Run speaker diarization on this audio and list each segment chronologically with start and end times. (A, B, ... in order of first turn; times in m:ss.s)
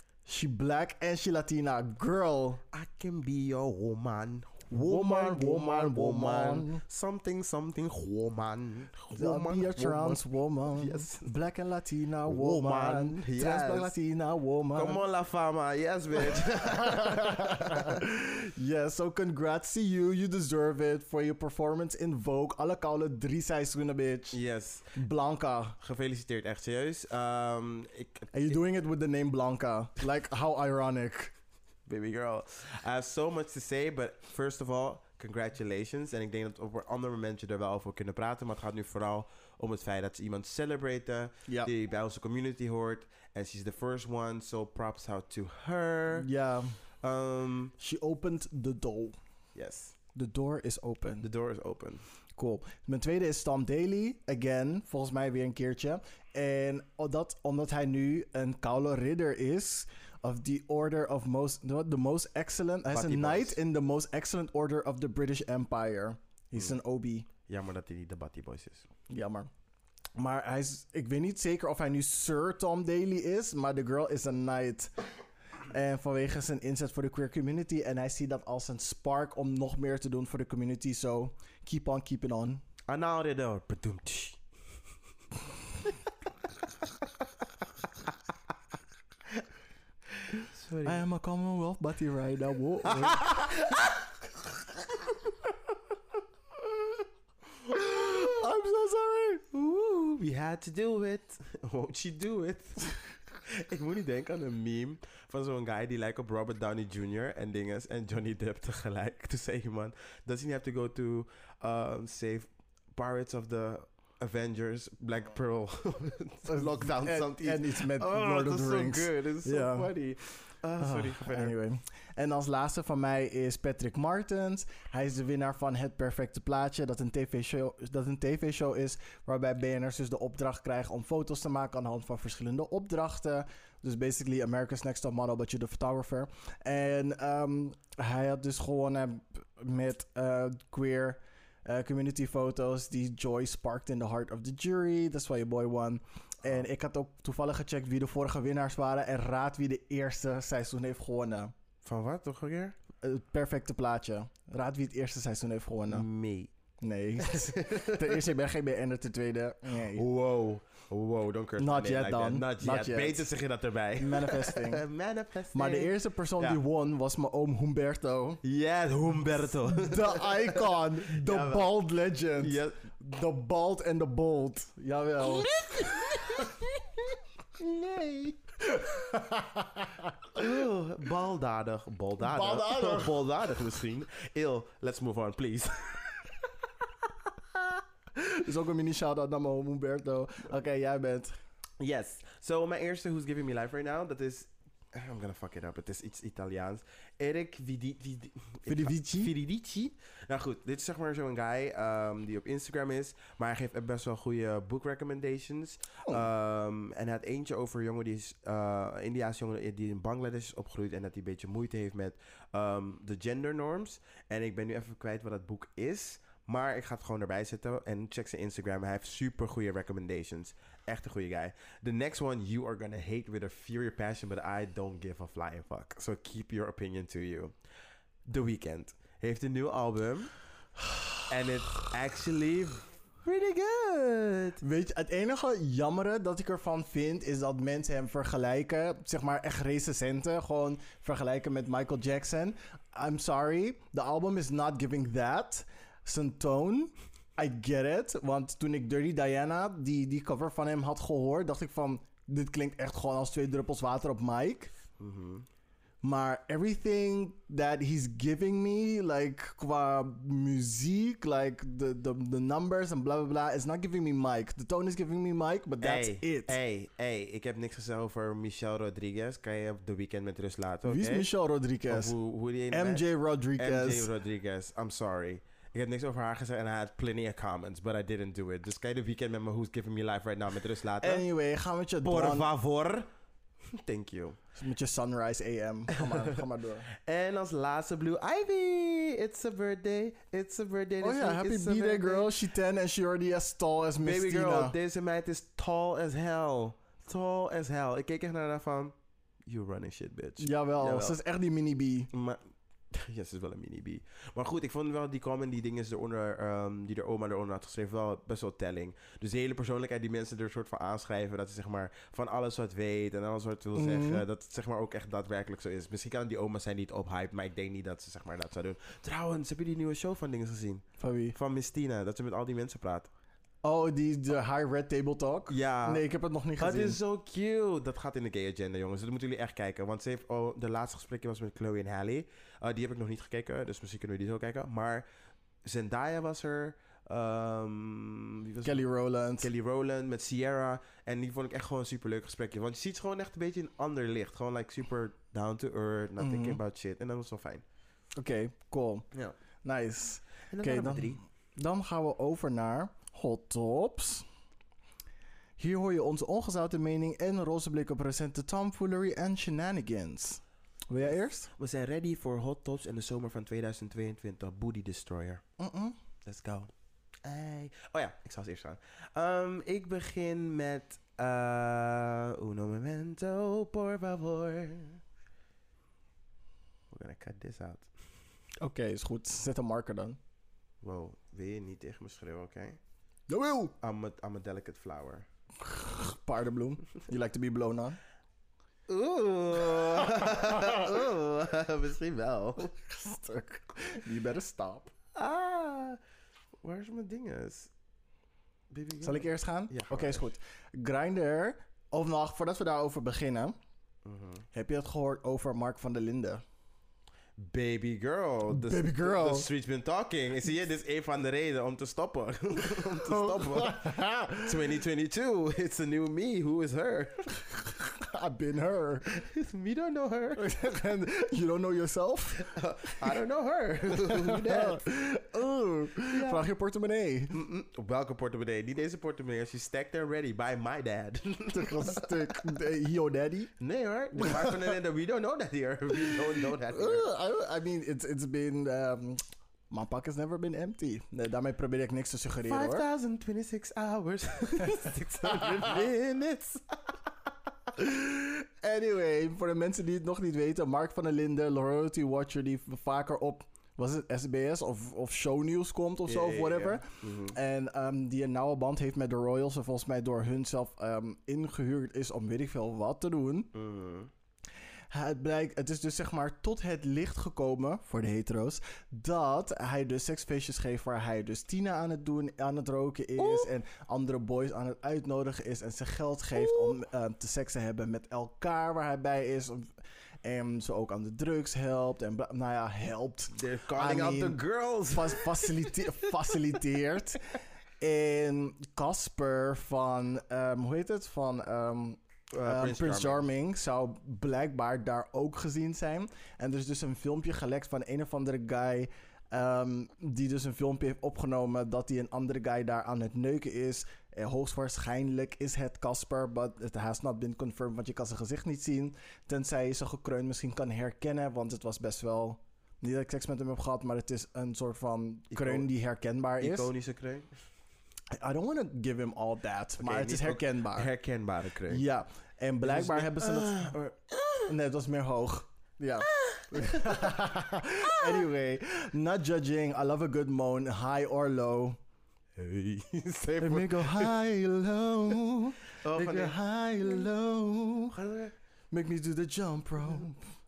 0:00.2-0:02.6 A
0:02.7-0:11.3 B
0:04.7-0:06.8 A
0:09.1-0:15.0 A
0:12.3-0:13.9 B
0:14.7-0:18.0 B
0:16.3-0:24.4 A
0:24.3-0:25.0 B
0:24.9-0:25.8 A
0:25.8-0:28.4 B
0:28.3-0:31.3 A
0:31.9-0:46.3 B
0:46.1-0:46.8 A
0:47.0-0:47.7 B
0:47.8-0:49.2 A
0:49.6-0:50.0 B
0:50.2-0:51.3 A
0:51.2-0:52.0 B
0:52.4-1:07.3 A
1:02.9-1:03.6 B
1:07.5-1:08.9 B
1:09.1-1:09.5 A
1:10.2-1:14.9 A
1:15.7-1:22.6 A
1:22.9-1:24.4 B
1:30.2-1:31.0 B
1:30.8-1:33.4 A
1:32.9-1:34.0 B
1:37.7-1:39.4 A
1:37.9-1:38.3 B
1:39.5-2:01.6 B
1:56.5-1:59.9 A
2:00.8-2:31.5 A
2:31.8-2:32.8 B
2:33.0-2:36.1 A
2:35.9-2:36.5 B
2:36.8-2:40.0 A
2:37.2-2:38.2 B
2:39.9-2:46.6 B
2:41.6-2:43.3 A
2:44.0-2:44.8 A
2:45.5-2:48.4 A
2:48.4-2:51.7 B
2:49.6-2:56.7 A
2:52.4-2:52.8 B
2:55.3-2:56.6 B
2:57.6-3:00.4 A
3:00.3-3:06.0 B
3:02.2-3:03.2 A
3:08.1-3:11.3 A
3:11.8-3:47.6 B
3:18.7-3:19.3 A
3:48.3-3:50.3 B
3:51.3-3:54.6 B
3:54.6-4:14.7 A
4:15.0-4:15.5 B
4:16.0-4:26.6 A
4:25.8-4:31.3 B
4:30.8-4:32.2 A
4:31.9-4:33.0 B
4:32.7-4:34.1 A
4:33.6-4:41.2 B
4:41.0-4:42.5 A
4:42.0-4:43.1 B
4:43.7-4:44.4 B
4:44.6-4:46.8 A
4:45.9-4:46.4 B
4:47.0-4:52.3 B
4:51.0-4:54.8 A
4:54.0-4:59.0 B
4:59.5-5:01.2 B
5:00.4-5:02.1 A
5:02.1-5:23.1 B
5:13.8-5:14.2 A
5:21.0-5:21.4 A
5:23.6-5:27.0 A
5:25.5-5:26.0 B
5:26.6-5:35.1 B
5:35.6-5:38.9 B
5:38.6-5:39.5 A
5:39.4-5:47.6 B
5:46.2-5:46.6 A
5:48.2-5:49.1 A
5:49.6-5:54.3 A
5:50.5-5:51.2 B
5:55.6-6:01.5 A
6:01.6-6:05.4 B
6:05.6-6:06.0 A
6:06.3-6:06.7 B
6:07.2-6:15.0 B
6:16.9-6:17.9 B
6:18.6-6:20.2 A
6:20.8-6:22.8 B
6:23.3-6:23.8 A
6:23.8-6:25.3 B
6:25.6-6:28.0 A
6:28.9-6:32.7 B
6:30.0-6:30.9 A
6:32.7-6:34.9 A
6:35.1-6:36.0 B
6:36.6-6:37.7 B
6:38.7-6:40.2 B
6:39.0-6:43.6 A
6:44.0-6:44.4 B
6:44.5-6:46.4 A
6:47.4-6:57.3 B
6:48.5-6:49.5 A
6:52.6-6:54.6 A
6:57.6-6:59.1 A
6:59.1-7:00.5 B
7:00.4-7:03.2 A
7:02.4-7:04.8 B
7:03.9-7:07.4 A
7:06.1-7:06.4 B
7:07.3-7:12.5 B
7:11.5-7:13.5 A
7:13.6-7:17.1 B
7:14.1-7:14.8 A
7:15.9-7:22.8 A
7:22.4-7:26.9 B
7:24.8-7:25.8 A
7:27.7-7:43.5 A
7:36.1-7:37.4 B
7:43.5-7:44.1 B
7:44.9-8:36.7 A
7:53.2-7:53.5 B
7:56.4-7:56.7 B
8:03.3-8:06.0 B
8:12.3-8:13.2 B
8:35.3-8:35.7 B
8:36.4-8:37.3 B
8:38.1-8:40.9 A
8:39.8-8:41.8 B
8:41.7-8:43.9 A
8:42.6-8:44.5 B
8:44.5-8:51.8 A
8:46.1-8:47.1 B
8:47.8-8:48.2 B
8:52.4-8:54.2 B
8:53.4-8:58.0 A
8:55.8-8:56.4 B
8:57.9-8:58.3 B
8:58.7-9:00.3 A